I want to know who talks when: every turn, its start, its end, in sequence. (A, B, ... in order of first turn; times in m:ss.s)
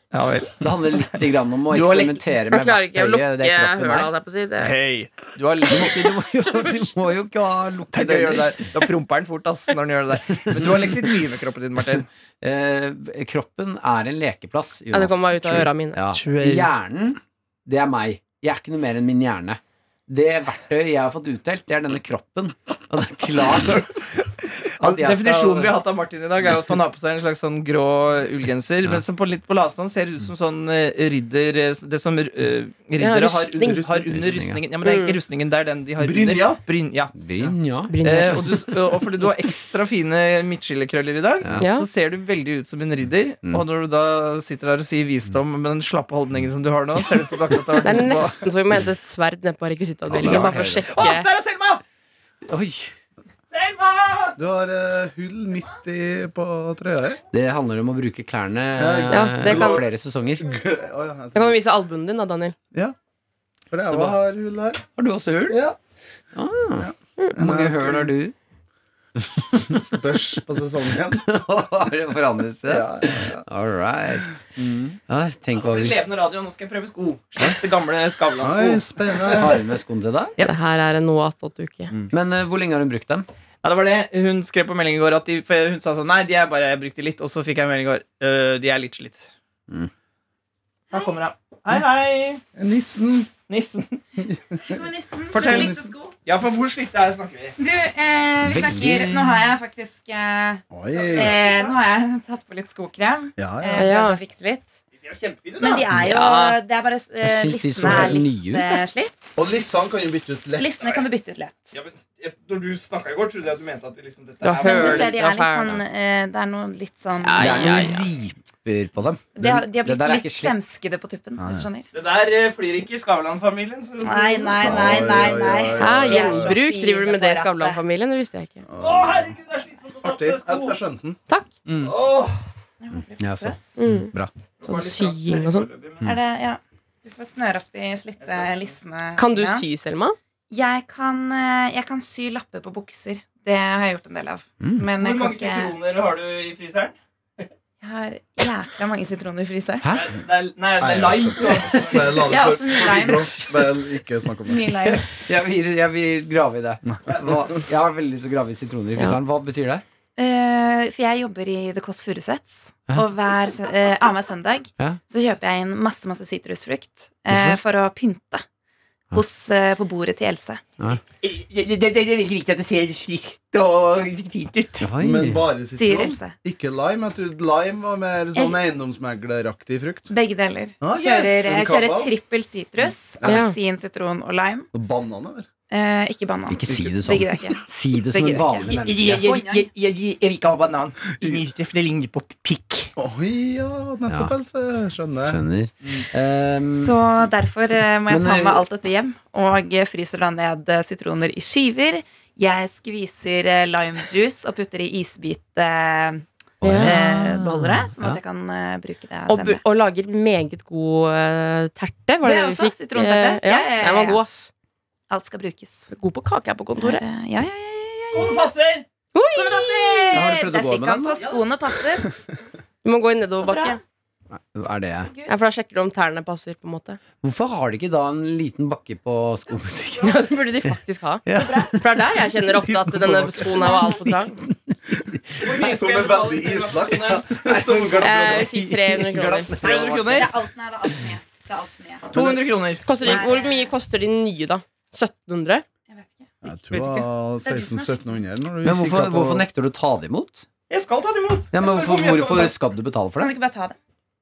0:00.1-0:01.1 A
0:00.6-0:04.1 B
0:01.7-0:02.2 A
0:02.5-0:04.8 C
0:04.6-0:06.7 A
0:05.6-0:08.8 B
0:07.9-0:12.1 A
0:10.3-0:10.9 B
0:12.4-0:23.9 B
0:14.9-0:16.0 C
0:16.1-0:16.7 A
0:24.8-0:25.8 B
0:24.8-0:37.1 A
0:33.0-0:34.0 C
0:33.8-0:34.7 B
0:34.8-0:35.2 C
0:36.0-0:36.6 D
0:37.1-0:38.5 B
0:37.9-0:38.6 C
0:38.0-0:48.4 A
0:41.6-0:41.9 C
0:47.8-0:51.3 C
0:50.1-0:50.9 B
0:50.2-0:51.8 A
0:52.5-0:52.9 B
0:53.5-0:54.4 A
0:54.4-0:57.2 D
0:57.3-1:00.4 B
0:58.8-0:59.9 D
0:59.1-0:59.8 C
1:00.4-1:01.5 D
1:01.3-1:02.6 C
1:03.7-1:04.8 D
1:05.0-1:05.6 B
1:05.5-1:05.8 D
1:06.3-1:08.3 B
1:06.8-1:08.1 D
1:09.7-1:11.4 D
1:11.1-1:14.4 B
1:12.6-1:13.4 D
1:14.6-1:14.9 D
1:15.1-1:16.0 B
1:15.6-1:19.6 A
1:18.4-1:19.6 D
1:19.4-1:20.3 B
1:20.4-1:21.9 C
1:22.1-1:23.2 B
1:23.6-1:29.3 A
1:30.9-1:32.4 A
1:32.5-1:33.3 D
1:33.5-1:34.0 A
1:34.2-1:35.9 D
1:34.7-1:36.2 E
1:35.3-1:37.5 A
1:37.6-1:44.7 E
1:38.4-1:39.3 B
1:40.7-1:41.4 D
1:43.4-1:44.0 D
1:43.7-1:44.2 C
1:44.9-1:45.8 A
1:45.6-1:49.4 E
1:46.0-1:46.6 C
1:47.2-1:48.8 B
1:47.8-1:48.2 D
1:49.4-1:50.7 D
1:50.6-1:51.8 E
1:51.7-1:55.2 A
1:54.4-1:55.8 C
1:54.6-1:57.8 E
1:57.2-1:58.0 C
1:57.3-2:00.5 B
1:59.4-2:01.9 E
1:59.4-1:59.6 D
2:01.4-2:01.7 D
2:01.9-2:05.3 A
2:04.0-2:07.8 E
2:04.3-2:06.6 D
2:05.8-2:08.6 C
2:08.7-2:09.3 D
2:08.8-2:10.8 A
2:10.0-2:11.9 D
2:11.8-2:12.4 A
2:12.8-2:13.7 E
2:13.2-2:14.3 B
2:13.8-2:15.7 C
2:14.6-2:16.1 A
2:16.0-2:19.6 E
2:18.2-2:18.8 A
2:19.2-2:20.2 C
2:20.5-2:25.8 E
2:24.9-2:27.5 A
2:27.8-2:29.8 E
2:29.8-2:30.1 B
2:29.9-2:32.2 A
2:30.8-2:34.7 D
2:31.7-2:32.2 B
2:32.3-2:33.5 E
2:33.3-2:33.7 B
2:34.4-2:35.3 E
2:34.6-2:39.8 B
2:37.1-2:37.4 A
2:40.2-2:48.4 E
2:47.3-2:47.6 B
2:49.1-2:50.6 E
2:51.2-2:54.9 A
2:54.8-2:55.6 B
2:55.0-3:00.1 D
2:55.7-2:56.4 E
2:58.3-2:58.6 E
3:00.1-3:04.7 E
3:00.8-3:02.1 D
3:02.8-3:03.5 D
3:03.2-3:03.6 C
3:04.7-3:05.5 D
3:05.7-3:09.7 E
3:06.5-3:09.3 B
3:08.6-3:12.9 A
3:13.0-3:15.4 D
3:14.1-3:14.3 B
3:15.2-3:17.0 B
3:16.8-3:26.2 E
3:18.1-3:18.6 B
3:26.6-3:28.2 B
3:26.6-3:27.0 C
3:26.8-3:29.6 E
3:29.3-3:34.5 C
3:32.2-3:34.2 E
3:35.1-3:35.9 E
3:35.9-3:37.0 C
3:36.8-3:38.5 E
3:38.1-3:38.8 A
3:39.1-3:40.0 C
3:39.3-3:42.1 E
3:40.1-3:41.2 B
3:42.8-3:43.8 C
3:43.4-3:43.8 E
3:44.3-3:45.2 B
3:45.3-3:47.0 C
3:47.2-3:51.9 B
3:50.0-3:54.3 C
3:51.3-3:51.8 E
3:52.5-3:53.7 D
3:53.7-3:53.9 E
3:54.3-3:54.5 B
3:55.4-3:58.2 A
3:55.6-3:58.5 D
3:57.3-4:00.4 B
3:58.0-3:59.5 C
3:59.6-4:00.3 A
4:00.1-4:02.2 E
4:02.1-4:02.9 A
4:02.1-4:02.4 D
4:02.8-4:05.6 C
4:03.0-4:03.7 E
4:05.9-4:08.2 E
4:06.4-4:09.4 D
4:08.6-4:10.4 B
4:10.7-4:12.6 A
4:11.5-4:13.3 B
4:13.2-4:13.8 E